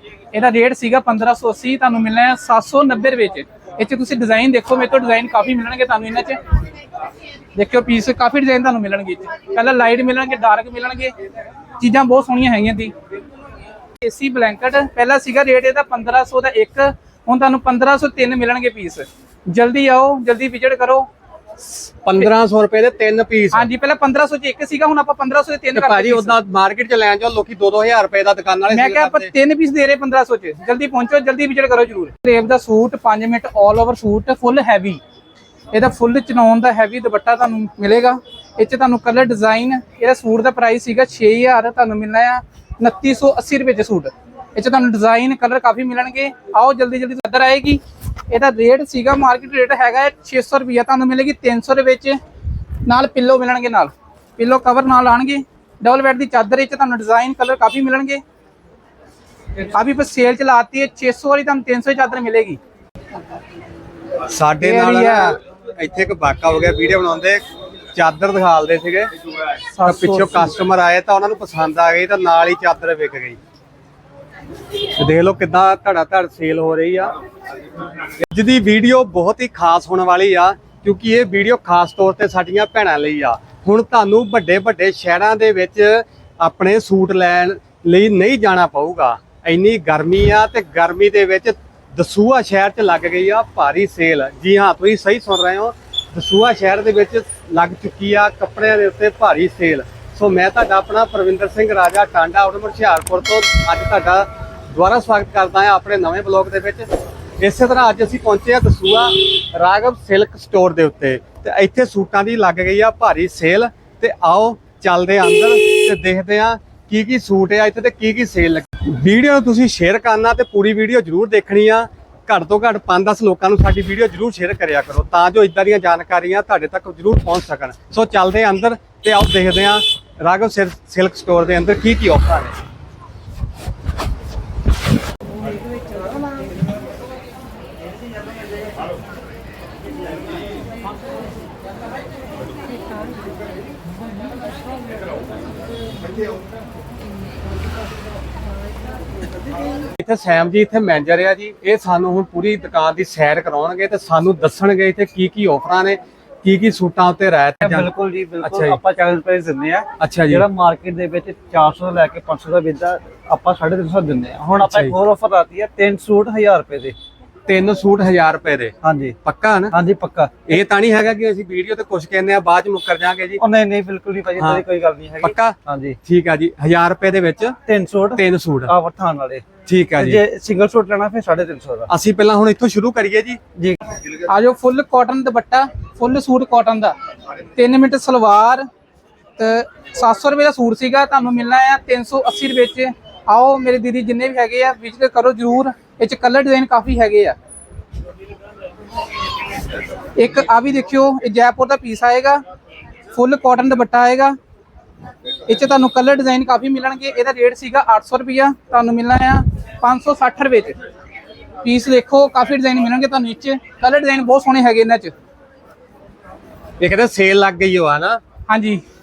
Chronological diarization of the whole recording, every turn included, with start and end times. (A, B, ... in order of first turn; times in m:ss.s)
0:00.3-0:06.4 A
0:07.5-0:11.1 A
0:11.8-0:12.9 A
0:14.0-0:21.1 A
0:22.0-0:23.7 B
0:23.5-0:26.4 A
0:25.7-0:29.3 B
0:28.7-0:35.0 A
0:35.7-0:52.2 A
0:52.8-0:58.2 A
0:59.6-1:02.6 A
1:04.3-1:09.1 B
1:04.6-1:05.4 A
1:09.7-1:10.5 C
1:09.8-1:13.4 B
1:15.0-1:17.1 B
1:18.2-2:12.6 B
2:30.0-2:38.8 B
2:37.6-2:46.9 C
2:40.0-2:40.5 B
2:44.6-2:45.0 B
2:47.5-2:49.7 B
2:48.8-2:49.2 C
2:49.7-2:50.4 C
2:50.5-2:53.4 B
2:53.4-2:56.0 C
2:54.4-2:54.6 B
2:55.2-2:55.5 B
2:56.0-2:57.6 B
2:57.7-3:01.9 C
2:58.1-2:58.7 B
2:59.6-3:00.2 B
3:01.9-3:03.4 B
3:04.1-3:06.9 A
3:07.6-3:08.6 A
3:09.4-3:17.4 A
3:20.1-3:22.4 A
3:23.1-3:24.4 A
3:25.5-3:30.8 A
3:31.6-3:35.1 A
3:36.8-3:38.2 B
3:38.5-3:38.8 A